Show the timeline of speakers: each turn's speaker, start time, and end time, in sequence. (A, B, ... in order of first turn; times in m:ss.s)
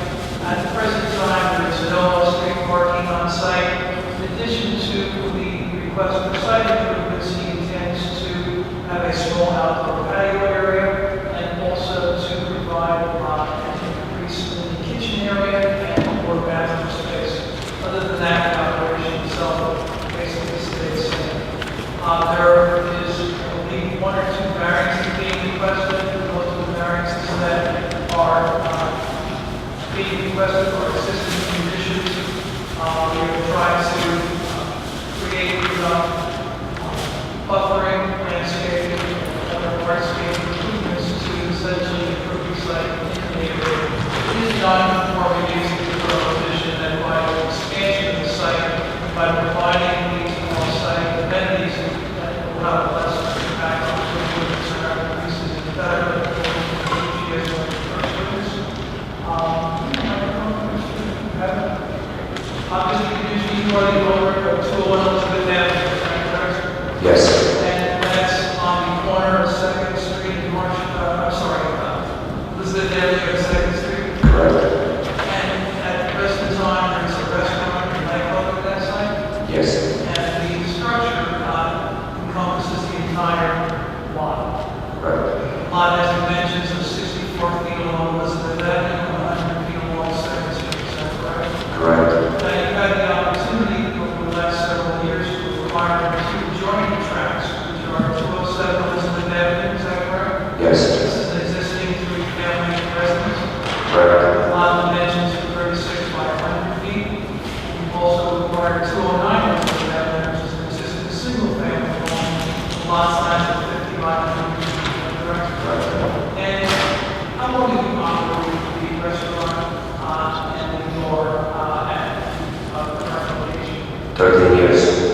0:00.4-0:21.4 A
0:22.0-0:29.0 A
0:29.9-0:36.1 A
0:36.8-0:58.6 A
0:59.2-1:02.0 A
1:02.7-1:06.8 A
1:07.0-1:07.4 B
1:07.4-1:14.2 A
1:14.2-1:14.6 B
1:15.2-1:19.2 A
1:19.4-1:19.8 B
1:20.0-1:24.5 A
1:25.0-1:25.2 B
1:25.6-1:31.5 A
1:31.7-1:32.2 B
1:32.4-1:40.4 A
1:40.6-1:40.9 B
1:40.9-1:43.5 A
1:43.9-1:44.2 B
1:44.4-1:47.1 A
1:47.6-1:56.8 A
1:55.6-1:56.0 B
1:57.4-2:04.0 A
2:04.2-2:04.9 B